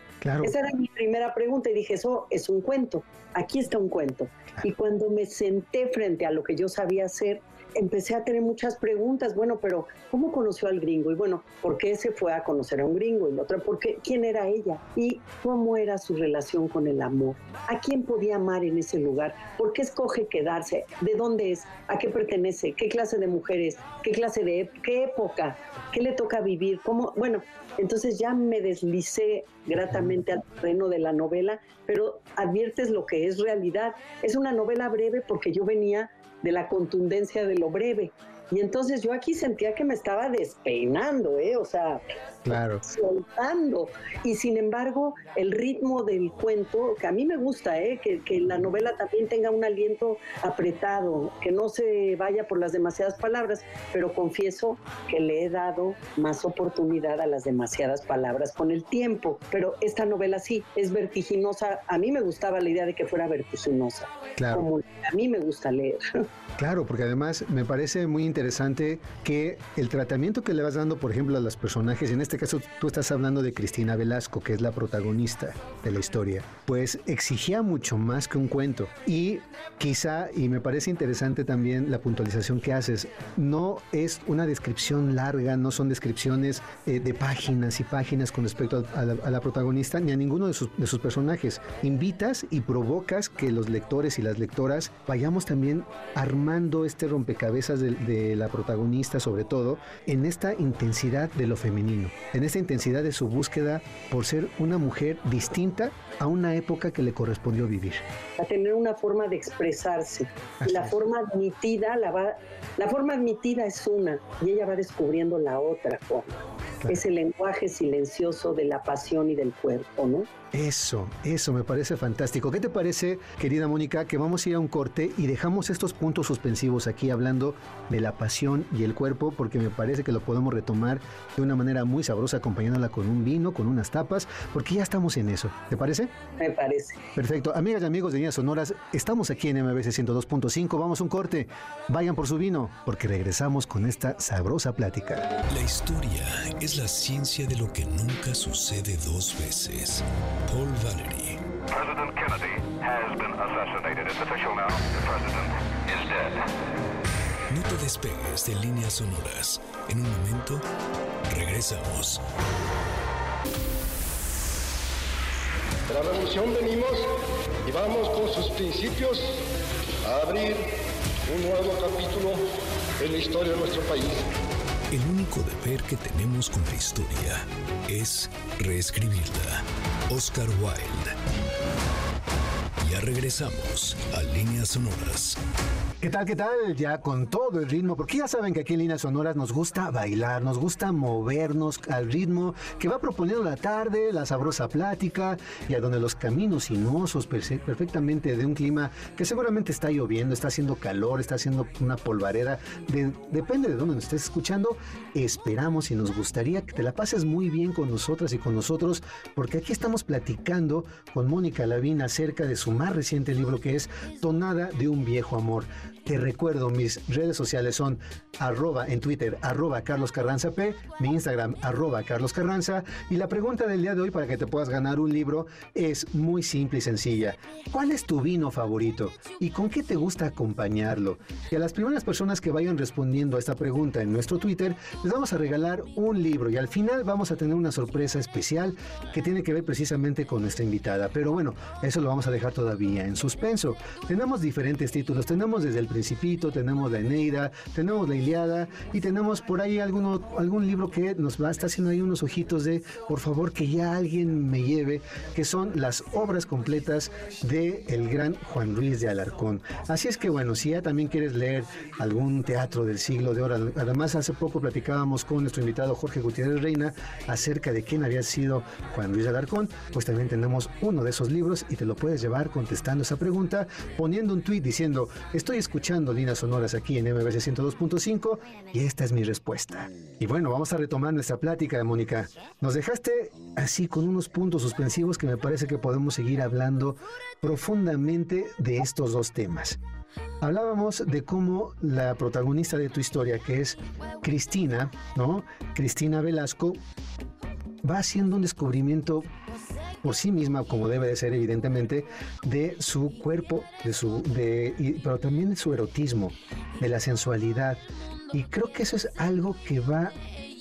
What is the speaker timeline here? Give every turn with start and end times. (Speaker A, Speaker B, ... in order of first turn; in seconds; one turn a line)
Speaker A: 0.2-0.6
Speaker B: 0.4-66.2
Speaker A: 42.5-42.8
Speaker A: 64.4-64.7
Speaker A: 66.6-108.0
Speaker B: 108.4-120.3
Speaker A: 110.6-111.0
Speaker A: 120.5-136.1
Speaker B: 136.4-137.0
Speaker A: 137.1-145.3
Speaker C: 145.5-151.4
Speaker D: 151.7-156.5
Speaker C: 157.5-160.6
Speaker C: 161.3-162.2
Speaker E: 165.9-167.1
Speaker E: 167.6-169.4
Speaker E: 170.0-170.7
Speaker E: 171.3-172.4
Speaker E: 173.0-174.3
Speaker C: 174.9-181.2
Speaker C: 182.8-185.4
Speaker A: 186.0-289.8
Speaker A: 290.4-296.8
Speaker A: 297.8-299.3
Speaker A: 300.0-310.1